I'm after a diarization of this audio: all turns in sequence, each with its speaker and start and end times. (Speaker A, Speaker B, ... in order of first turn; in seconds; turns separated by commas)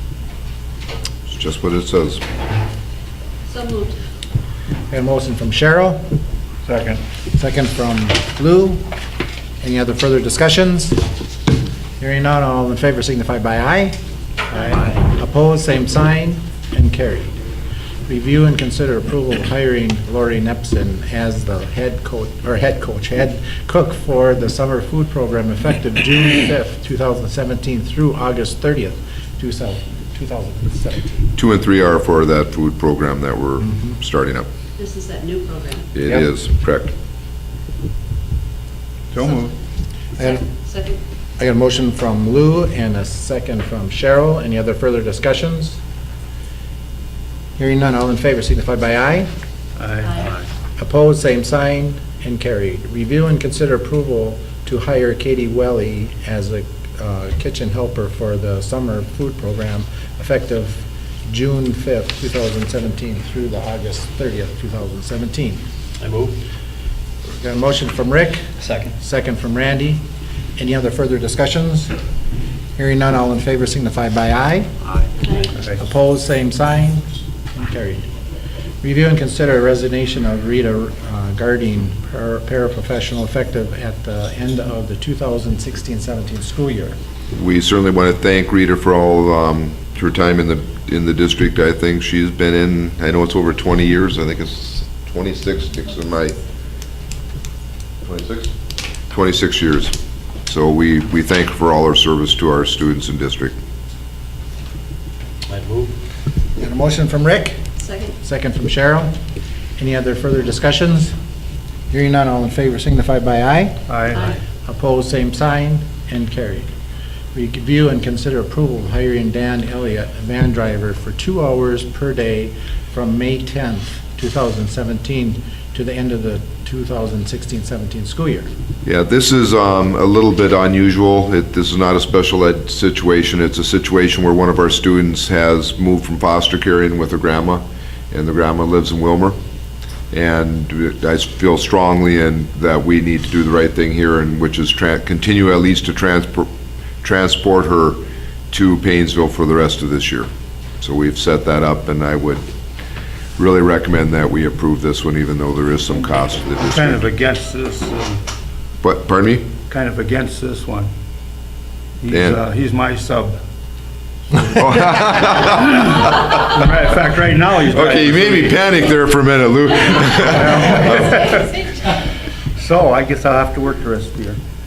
Speaker A: 1.3-2.2, Speaker B: 3.5-4.0, Speaker C: 4.9-6.0, Speaker D: 6.7-7.0, Speaker C: 7.3-8.8, Speaker C: 9.6-11.0, Speaker C: 12.0-14.0, Speaker C: 14.5-17.4, Speaker C: 18.1-31.3, Speaker A: 31.4-34.5, Speaker C: 33.6-34.0, Speaker B: 34.8-35.9, Speaker A: 35.9-36.9, Speaker D: 39.1-39.5, Speaker B: 40.2-41.0, Speaker C: 40.2-40.4, Speaker C: 41.4-45.8, Speaker C: 47.6-49.3, Speaker D: 49.8-50.3, Speaker B: 50.0-50.3, Speaker C: 50.8-65.6, Speaker E: 66.0-66.4, Speaker C: 67.4-70.0, Speaker E: 68.6-68.9, Speaker C: 70.6-71.9, Speaker C: 72.8-74.7, Speaker E: 74.8-75.5, Speaker B: 75.2-75.5, Speaker C: 75.7-78.1, Speaker C: 78.8-87.0, Speaker A: 87.3-96.4, Speaker A: 98.0-98.5, Speaker A: 99.1-99.9, Speaker A: 100.5-103.5, Speaker E: 105.5-105.9, Speaker C: 106.6-107.6, Speaker B: 107.8-108.2, Speaker C: 108.2-109.1, Speaker C: 109.8-111.1, Speaker C: 111.9-113.8, Speaker D: 113.9-114.2, Speaker B: 114.1-114.4, Speaker C: 114.7-116.7, Speaker C: 117.3-128.5, Speaker A: 128.8-139.4, Speaker A: 140.1-146.5, Speaker A: 147.0-148.0, Speaker A: 148.5-150.3, Speaker A: 150.8-152.4, Speaker A: 153.4-157.1, Speaker D: 156.7-158.2, Speaker A: 158.8-159.5, Speaker D: 159.7-160.9, Speaker D: 162.0-163.4, Speaker A: 162.1-162.4, Speaker A: 164.5-166.2, Speaker D: 165.4-168.8, Speaker A: 167.7-171.2, Speaker D: 170.0-171.9, Speaker D: 172.6-174.4